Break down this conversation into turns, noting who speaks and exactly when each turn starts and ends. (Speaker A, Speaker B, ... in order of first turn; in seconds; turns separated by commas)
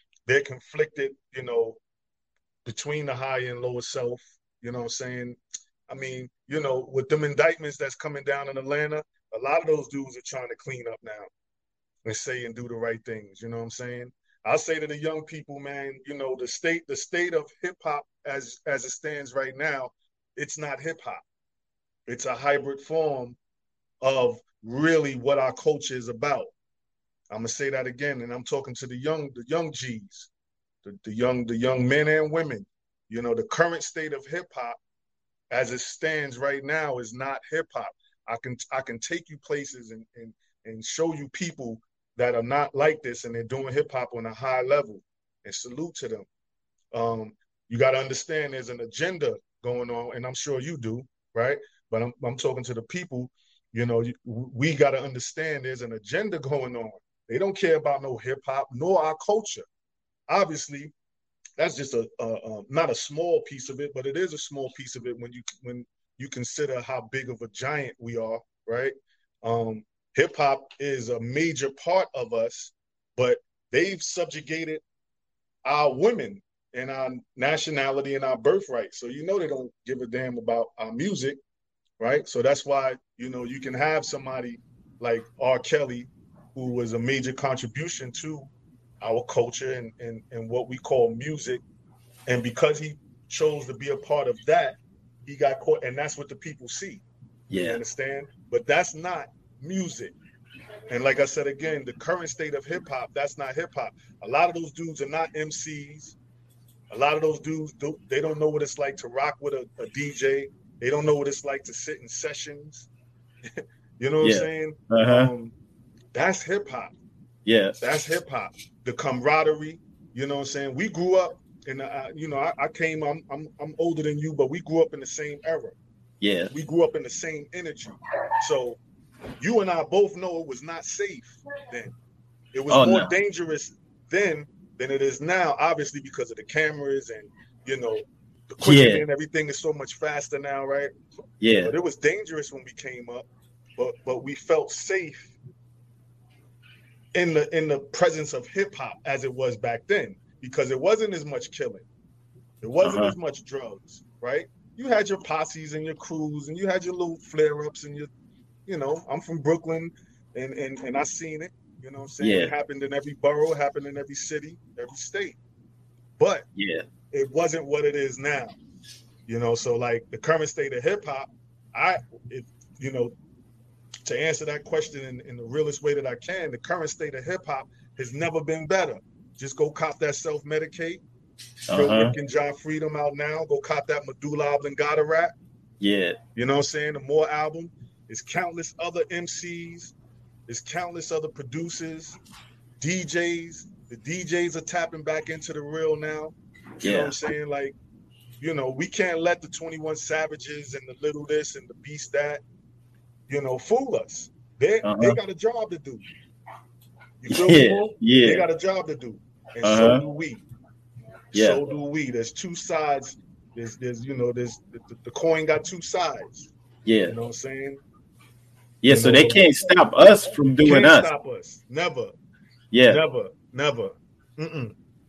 Speaker A: 0.3-1.8, Speaker A: 2.6-11.3, Speaker A: 12.1-21.2, Speaker A: 22.1-23.4, Speaker A: 24.0-26.5, Speaker A: 27.3-30.3, Speaker A: 30.8-34.8, Speaker A: 35.5-46.3, Speaker A: 46.9-59.7, Speaker A: 60.3-60.9, Speaker A: 61.6-74.8, Speaker A: 75.6-81.4, Speaker A: 82.0-88.5, Speaker A: 89.0-91.6, Speaker A: 92.3-97.0, Speaker B: 97.5-97.8, Speaker A: 97.6-100.2, Speaker A: 100.9-106.2, Speaker A: 106.9-112.9, Speaker A: 113.5-115.5, Speaker B: 114.2-115.3, Speaker A: 116.1-117.0, Speaker B: 117.5-117.8, Speaker A: 117.8-125.8, Speaker B: 126.2-126.5, Speaker A: 126.5-128.8, Speaker A: 129.4-131.9, Speaker A: 132.5-140.9, Speaker B: 132.7-133.1, Speaker B: 138.6-139.0, Speaker B: 141.4-141.7, Speaker A: 141.5-145.3, Speaker A: 147.1-151.8, Speaker A: 152.6-158.1, Speaker B: 152.8-153.2, Speaker A: 158.7-165.4, Speaker B: 162.2-162.5, Speaker A: 166.2-166.5, Speaker B: 166.6-166.8, Speaker A: 167.1-168.6, Speaker A: 169.3-173.2, Speaker A: 174.1-181.0, Speaker B: 181.7-182.1, Speaker A: 181.7-185.3, Speaker B: 185.8-186.2, Speaker A: 186.3-189.9, Speaker A: 190.5-192.2, Speaker A: 192.8-197.8, Speaker B: 196.8-197.1, Speaker A: 198.4-202.4, Speaker A: 203.3-206.0, Speaker B: 204.8-205.2, Speaker A: 207.2-210.4, Speaker B: 207.3-208.4, Speaker B: 209.6-210.0, Speaker A: 211.3-216.5, Speaker B: 211.3-211.6, Speaker B: 216.9-217.2, Speaker A: 217.0-217.8, Speaker B: 218.8-221.1, Speaker A: 218.9-219.5, Speaker A: 220.6-222.1, Speaker B: 222.7-223.0, Speaker A: 222.8-224.8